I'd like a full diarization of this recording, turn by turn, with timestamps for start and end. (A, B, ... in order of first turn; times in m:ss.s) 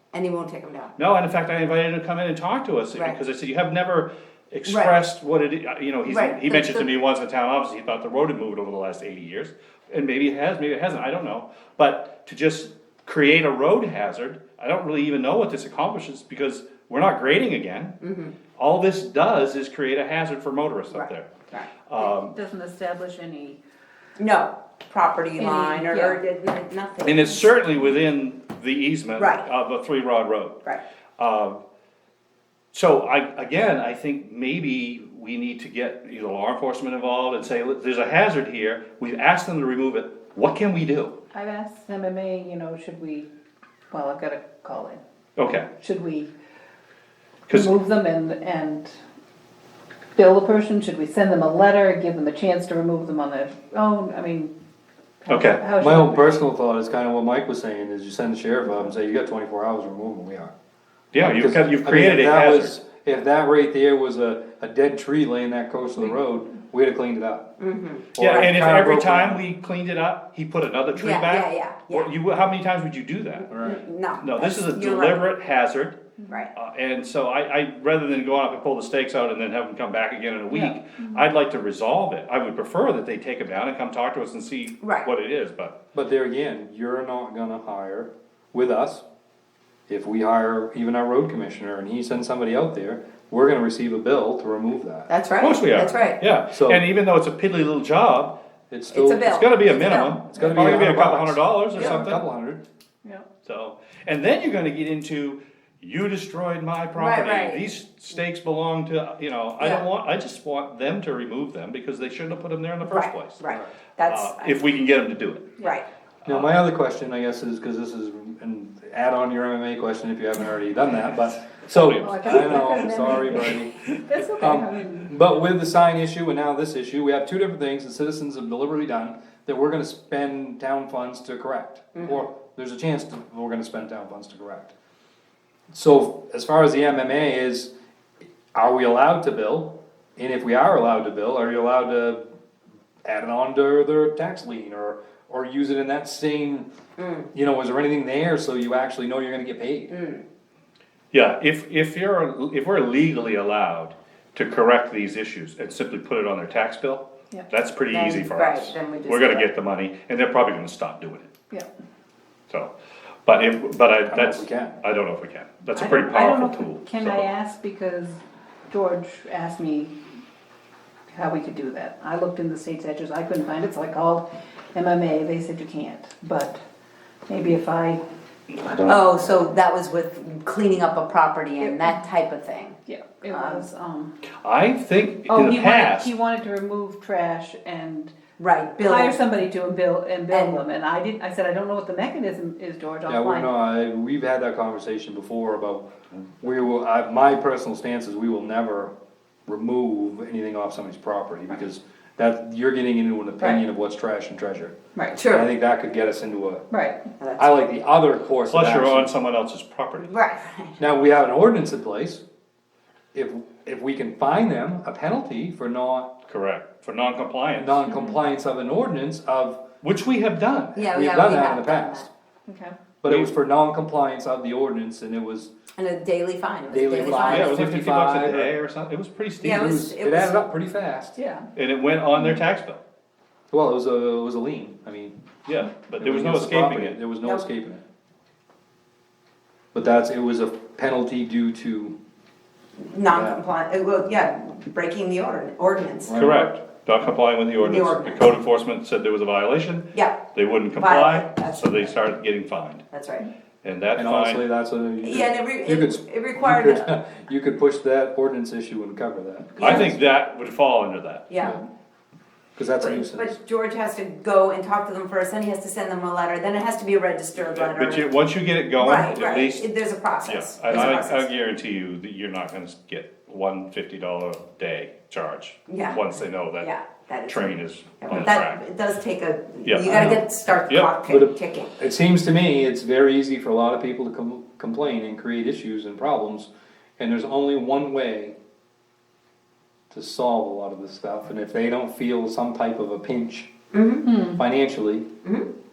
0:00.1-0:00.9 A
0:01.0-0:18.0 B
0:02.9-0:03.2 A
0:04.6-0:05.0 A
0:06.0-0:06.9 A
0:18.0-0:18.3 A
0:18.6-0:21.3 B
0:20.9-0:21.7 A
0:21.9-0:22.3 B
0:22.0-0:23.6 C
0:24.2-0:27.5 A
0:25.4-0:26.2 C
0:27.0-0:30.6 B
0:29.2-0:29.5 A
0:31.2-0:31.6 B
0:32.7-0:41.1 B
0:41.3-0:43.3 C
0:43.9-0:45.0 C
0:45.4-0:45.7 B
0:45.8-0:46.3 C
0:47.5-0:48.9 C
0:50.2-0:54.5 C
0:55.2-0:56.4 C
0:55.3-0:55.6 B
0:55.8-1:00.5 D
1:01.1-1:02.8 B
1:01.2-1:07.5 D
1:07.6-1:08.5 A
1:08.1-1:09.4 D
1:08.2-1:13.5 B
1:10.9-1:12.1 A
1:13.5-1:13.8 D
1:13.5-1:15.3 A
1:14.2-1:16.0 B
1:16.3-1:16.5 A
1:16.5-1:25.7 B
1:20.5-1:21.2 C
1:24.8-1:25.1 A
1:25.9-1:29.0 D
1:29.9-1:35.1 D
1:35.1-1:36.2 A
1:35.4-1:38.3 B
1:36.5-1:36.8 D
1:38.7-1:39.2 D
1:38.9-1:40.2 A
1:39.2-1:42.2 B
1:40.3-1:42.6 D
1:40.4-1:40.7 C
1:41.8-1:42.0 A
1:43.4-1:53.4 B
1:47.0-1:47.7 A
1:49.6-1:49.8 A
1:52.8-1:54.6 A
1:54.1-1:55.6 B
1:55.6-1:55.9 A
1:56.2-1:56.6 B
1:56.2-2:03.7 D
2:01.8-2:02.4 B
2:02.0-2:05.1 C
2:03.3-2:03.6 B
2:04.4-2:14.7 D
2:11.9-2:12.2 A
2:15.7-2:17.7 D
2:18.5-2:22.2 D
2:23.0-2:26.7 D
2:27.0-2:27.3 A
2:27.3-2:29.9 D
2:29.9-2:30.2 A
2:31.1-2:41.3 B
2:37.9-2:39.5 A
2:43.2-2:47.3 B
2:44.1-2:44.8 D
2:45.7-2:50.0 C
2:51.1-2:56.6 C
2:57.3-2:58.0 C
2:58.5-2:59.0 B
2:58.8-3:02.8 A
3:01.6-3:02.0 C
3:02.9-3:04.2 C
3:03.3-3:03.6 A
3:04.4-3:06.1 B
3:05.3-3:08.1 C
3:08.4-3:09.2 A
3:08.8-3:13.5 C
3:10.3-3:10.6 A
3:13.1-3:15.9 D
3:16.4-3:18.9 D
3:19.4-3:26.6 D
3:25.1-3:25.5 A
3:26.7-3:27.0 C
3:27.2-3:27.6 A
3:27.4-3:29.1 D
3:28.5-3:30.1 B
3:30.0-3:30.8 A
3:30.8-3:32.2 D
3:33.1-3:36.1 D
3:36.3-3:37.8 B
3:37.6-3:39.6 D
3:37.9-3:38.2 C
3:39.8-3:40.7 B
3:40.6-3:42.1 D
3:40.8-3:42.1 A
3:42.5-3:42.7 C
3:43.0-3:45.5 D
3:43.0-3:43.3 B
3:45.8-3:47.9 A
3:46.7-3:48.5 D
3:47.0-3:49.6 B
3:49.4-3:50.4 A
3:49.5-3:51.2 D
3:51.2-3:51.5 C
3:51.6-3:52.8 B
3:53.5-3:55.2 D
3:55.4-3:57.0 B
3:56.0-3:57.8 D
3:59.7-4:02.0 D
4:02.8-4:06.3 A
4:03.1-4:03.4 D
4:06.0-4:06.5 D
4:06.1-4:12.8 B
4:07.6-4:08.3 A
4:09.9-4:10.2 A
4:10.8-4:11.9 A
4:12.9-4:13.3 A
4:13.6-4:14.4 B
4:14.0-4:20.0 D
4:15.0-4:16.9 A
4:19.6-4:21.3 B
4:21.3-4:21.6 A
4:22.6-4:23.4 D
4:22.8-4:28.2 A
4:27.4-4:29.7 B
4:28.8-4:31.3 A
4:30.2-4:36.7 B
4:35.7-4:36.0 A
4:36.6-4:41.7 A
4:37.3-4:38.6 B
4:39.6-4:40.9 B
4:39.8-4:40.2 D
4:41.1-4:48.4 D
4:49.9-4:53.5 D
4:53.7-4:54.1 A
4:54.0-4:54.4 C
4:54.4-4:55.1 D